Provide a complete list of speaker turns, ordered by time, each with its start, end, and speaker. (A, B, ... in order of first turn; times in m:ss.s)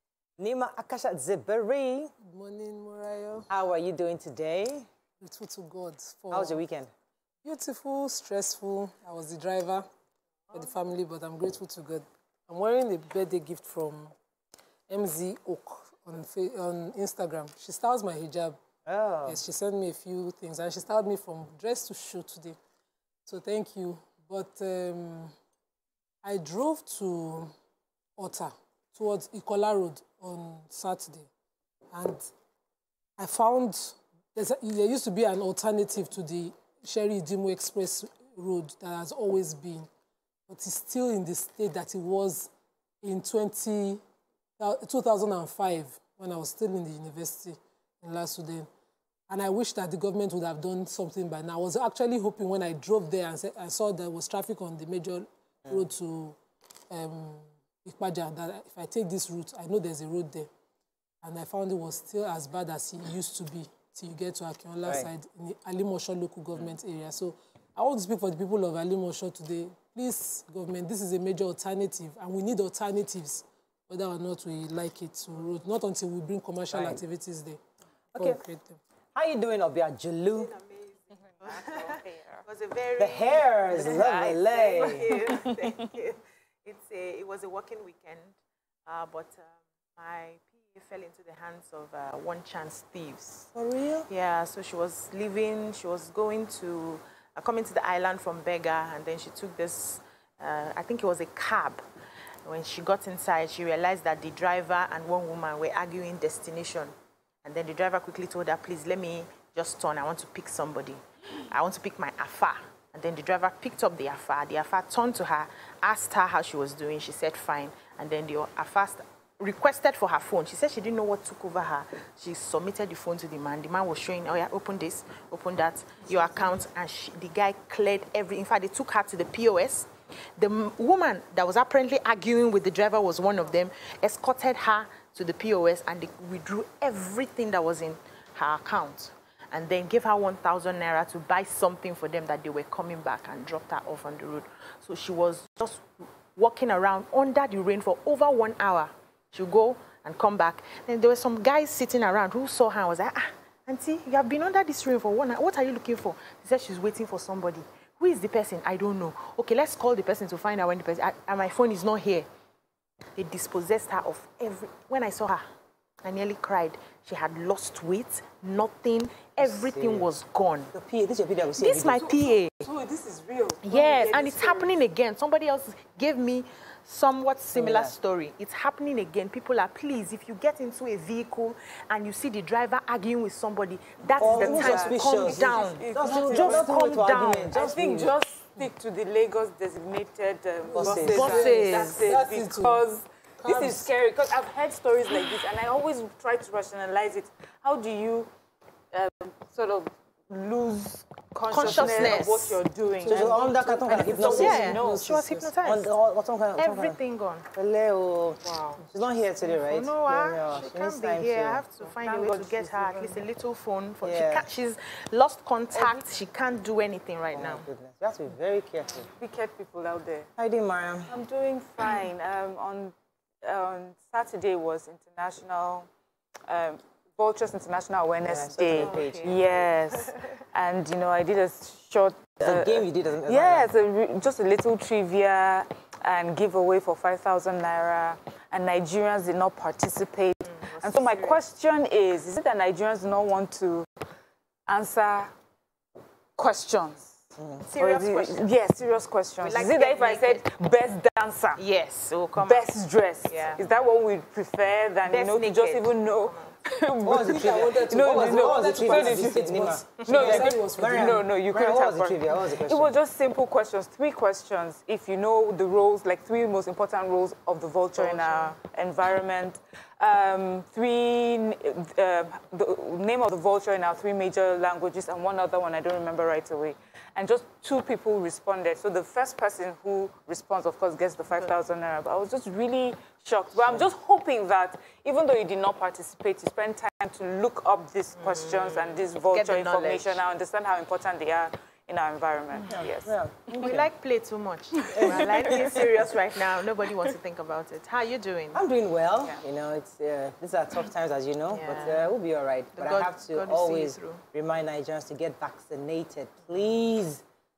0:00.4-0:02.1 A
0:02.2-0:03.5 B
0:03.5-0:04.9 A
0:05.2-0:06.6 B
0:06.3-0:06.9 A
0:07.4-0:09.9 B
0:10.5-0:14.1 B
0:14.9-0:18.6 B
0:18.9-0:19.4 A
0:19.3-0:22.6 B
0:23.3-0:25.3 B
0:26.2-0:27.5 B
0:28.2-0:31.3 B
0:31.9-0:32.3 B
0:33.2-0:39.9 B
0:40.5-0:42.5 B
0:43.0-0:44.0 B
0:44.6-0:48.7 B
0:49.3-0:56.4 B
0:56.9-1:00.5 B
1:01.2-1:17.6 B
1:16.7-1:17.0 A
1:18.2-1:18.4 A
1:18.2-1:18.8 B
1:19.2-1:20.5 A
1:20.4-1:28.4 C
1:21.4-1:22.4 D
1:23.0-1:25.2 A
1:25.3-1:25.6 D
1:28.9-1:33.5 C
1:33.5-1:34.1 A
1:34.1-1:41.8 C
1:42.5-1:46.9 C
1:47.4-2:42.3 C
2:43.2-2:45.4 C
2:46.0-2:50.7 C
2:49.4-2:50.1 A
2:50.7-2:52.2 A
2:51.6-2:52.7 C
2:52.6-2:54.7 B
2:53.6-3:05.8 C
2:57.5-2:58.0 A
3:04.2-3:08.1 A
3:04.2-3:06.7 D
3:06.1-3:06.6 B
3:06.4-3:07.5 C
3:07.5-3:18.3 D
3:10.6-3:12.8 B
3:10.8-3:11.4 A
3:11.1-3:12.0 C
3:13.4-3:13.9 B
3:18.9-3:25.1 D
3:21.5-3:22.6 C
3:21.7-3:22.0 B
3:23.0-3:25.5 B
3:23.1-3:24.9 A
3:24.3-3:25.9 C
3:25.6-3:27.0 A
3:26.6-3:27.5 C
3:27.5-3:31.6 A
3:29.5-3:37.6 C
3:32.0-3:33.1 D
3:34.0-3:34.5 A
3:37.3-3:39.1 A
3:39.1-3:40.3 D
3:40.4-3:41.1 A
3:41.1-3:45.9 D
3:46.5-4:03.9 D
3:48.2-3:49.3 A
3:48.8-3:49.4 C
3:52.4-3:53.7 A
4:00.6-4:01.4 C
4:04.7-4:05.3 D
4:06.4-4:07.2 D
4:07.4-4:07.6 A
4:07.7-4:08.4 C
4:07.8-4:11.6 D
4:09.4-4:10.4 C
4:11.6-4:12.7 C
4:12.4-4:53.1 D
4:13.3-4:13.6 C
4:15.1-4:16.6 C
4:17.0-4:22.9 A
4:17.0-4:21.2 B
4:28.1-4:28.5 C
4:48.2-4:50.2 C
4:52.7-4:53.7 A
4:53.5-4:58.6 C
4:55.0-4:55.8 D
4:55.0-4:55.6 A
4:58.5-5:07.2 A
5:01.5-5:02.1 C
5:02.8-5:04.2 C